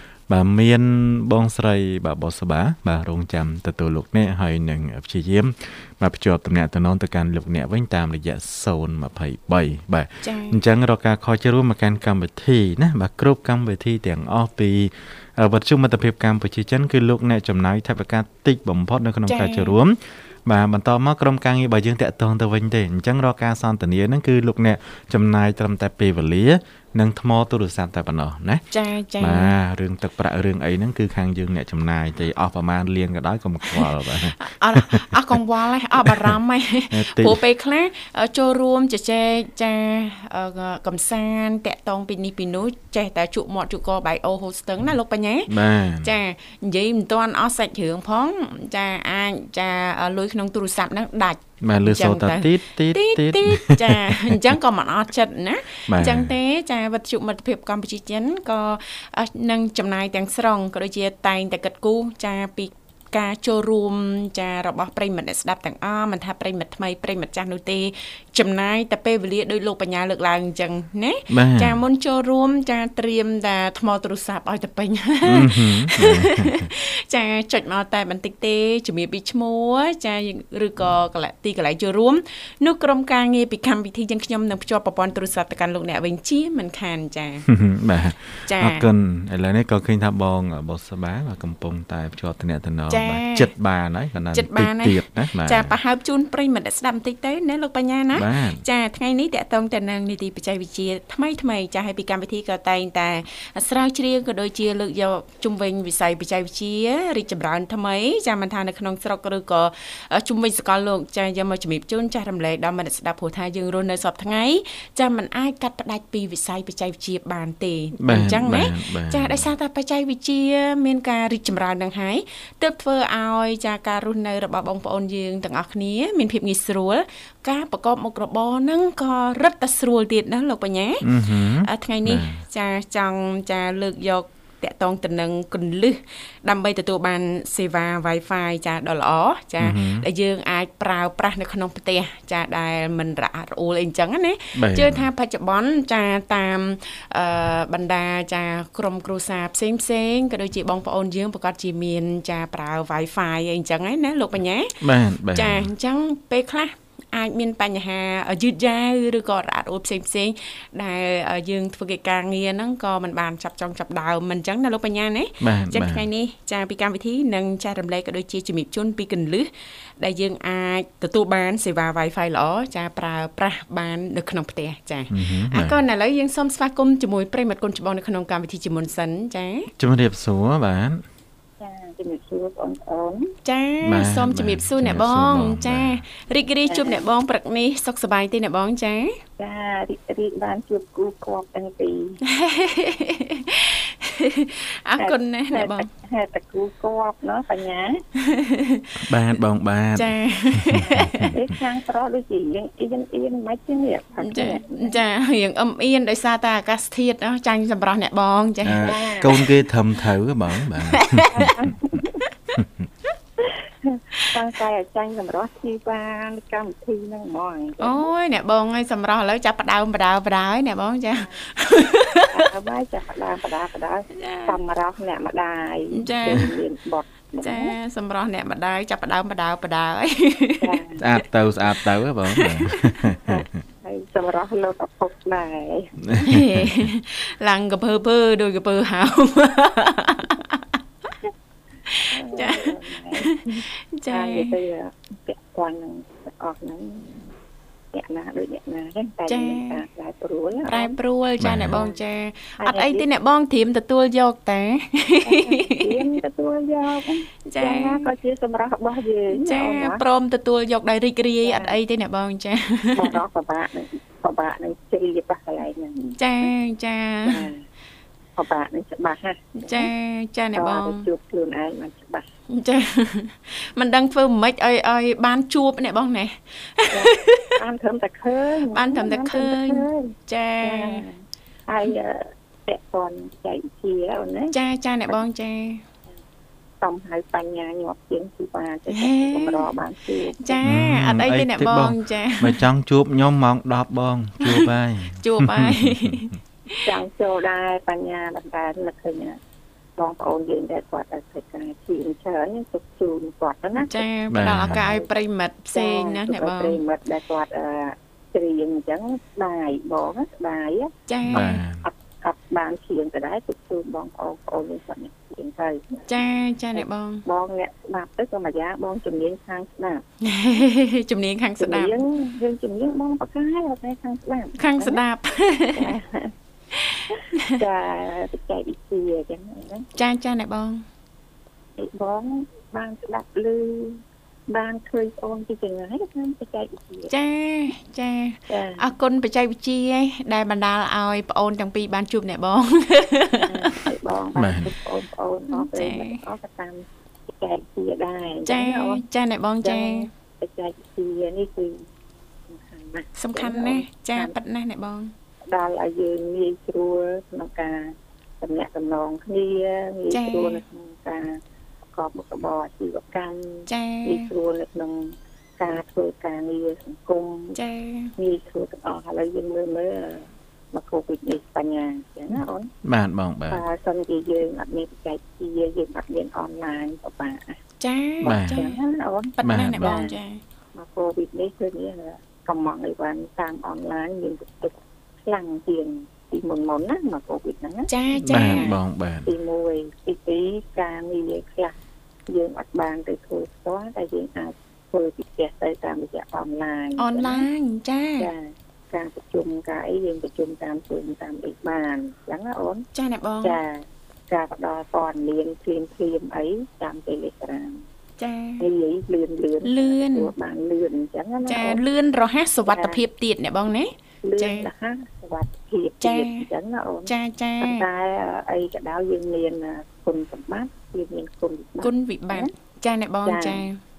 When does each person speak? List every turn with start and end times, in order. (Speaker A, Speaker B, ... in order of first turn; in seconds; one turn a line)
Speaker A: 0.3-28.6
Speaker B: 10.2-10.6
Speaker B: 19.3-19.8
Speaker B: 28.7-29.5
Speaker A: 29.2-35.4
Speaker B: 33.7-87.5
Speaker A: 36.0-36.4
Speaker A: 36.9-37.4
Speaker A: 45.5-46.2
Speaker A: 51.6-54.5
Speaker A: 55.9-56.3
Speaker A: 71.3-71.8
Speaker A: 75.2-76.7
Speaker A: 87.5-95.8
Speaker B: 88.5-88.9
Speaker B: 92.9-93.5
Speaker B: 94.3-154.8
Speaker A: 98.1-98.7
Speaker A: 118.0-119.5
Speaker A: 131.0-132.4
Speaker A: 139.6-140.1
Speaker A: 144.6-145.1
Speaker A: 154.8-155.7
Speaker B: 155.3-169.5
Speaker A: 165.4-166.1
Speaker B: 170.0-179.7
Speaker A: 175.1-175.8
Speaker A: 179.8-181.0
Speaker C: 181.6-183.3
Speaker B: 183.4-189.2
Speaker A: 183.8-186.0
Speaker C: 186.7-187.0
Speaker C: 189.4-192.2
Speaker B: 192.2-195.9
Speaker C: 195.0-198.0
Speaker B: 198.2-199.1
Speaker A: 199.0-201.4
Speaker B: 199.9-201.3
Speaker C: 200.8-205.0
Speaker B: 204.2-209.5
Speaker A: 208.6-211.7
Speaker C: 208.8-209.4
Speaker B: 210.9-211.5
Speaker C: 211.3-212.2
Speaker A: 212.6-212.9
Speaker C: 213.8-218.1
Speaker B: 217.8-222.4
Speaker C: 222.3-227.8
Speaker B: 224.1-224.6
Speaker B: 225.9-226.5
Speaker B: 227.4-230.8
Speaker C: 230.6-231.0
Speaker A: 231.0-233.5
Speaker B: 232.3-233.1
Speaker C: 233.2-236.0
Speaker A: 236.0-236.9
Speaker B: 236.2-240.6
Speaker B: 241.9-244.5
Speaker C: 242.1-247.2
Speaker C: 247.9-250.9
Speaker B: 249.3-249.8
Speaker B: 250.7-256.2
Speaker A: 251.4-251.8
Speaker C: 251.7-252.0
Speaker C: 252.6-253.1
Speaker C: 255.2-260.0
Speaker B: 257.5-258.1
Speaker B: 259.3-263.2
Speaker C: 261.4-261.8
Speaker C: 262.9-266.5
Speaker B: 266.2-267.4
Speaker C: 267.3-267.6
Speaker C: 268.4-269.9
Speaker B: 269.6-271.1
Speaker C: 270.5-272.3
Speaker B: 272.5-277.6
Speaker C: 276.9-284.6
Speaker B: 278.7-281.0
Speaker B: 284.5-285.8
Speaker C: 286.8-290.7
Speaker B: 288.9-289.7
Speaker B: 290.4-292.6
Speaker A: 290.7-296.2
Speaker B: 294.4-296.9
Speaker C: 296.9-299.4
Speaker C: 300.0-304.1
Speaker B: 303.9-306.8
Speaker A: 304.3-304.9
Speaker C: 304.7-305.1
Speaker C: 305.7-316.1
Speaker B: 311.1-311.6
Speaker A: 311.3-311.8
Speaker B: 316.1-317.2
Speaker C: 316.8-320.0
Speaker B: 320.2-322.0
Speaker C: 321.6-325.0
Speaker B: 324.6-325.9
Speaker C: 325.7-326.3
Speaker B: 326.7-327.6
Speaker C: 327.5-329.9
Speaker B: 330.0-330.8
Speaker C: 331.8-337.1
Speaker B: 337.1-343.8
Speaker C: 338.5-338.9
Speaker C: 343.4-349.0
Speaker A: 344.4-344.7
Speaker B: 345.5-346.2
Speaker B: 348.5-350.1
Speaker C: 349.6-351.9
Speaker C: 352.5-354.3
Speaker B: 353.2-355.1
Speaker C: 355.5-361.4
Speaker B: 360.1-360.6
Speaker C: 361.9-367.6
Speaker B: 363.7-364.3
Speaker B: 367.6-368.1
Speaker C: 368.2-372.7
Speaker A: 372.8-373.6
Speaker C: 373.5-377.6
Speaker B: 377.8-378.8
Speaker C: 378.2-380.2
Speaker A: 378.2-378.6
Speaker B: 379.4-380.4
Speaker A: 379.4-380.0
Speaker C: 380.7-391.7
Speaker B: 387.9-388.7
Speaker A: 388.2-389.3
Speaker C: 392.3-397.5
Speaker B: 397.0-398.3
Speaker C: 398.2-402.9
Speaker B: 402.9-403.6
Speaker C: 403.4-407.8
Speaker B: 408.2-408.7
Speaker C: 408.6-411.8
Speaker B: 409.6-410.3
Speaker B: 411.5-414.7
Speaker C: 412.7-413.0
Speaker C: 414.2-422.5
Speaker B: 416.0-416.5
Speaker B: 417.1-417.8
Speaker B: 421.8-423.8
Speaker C: 423.3-423.7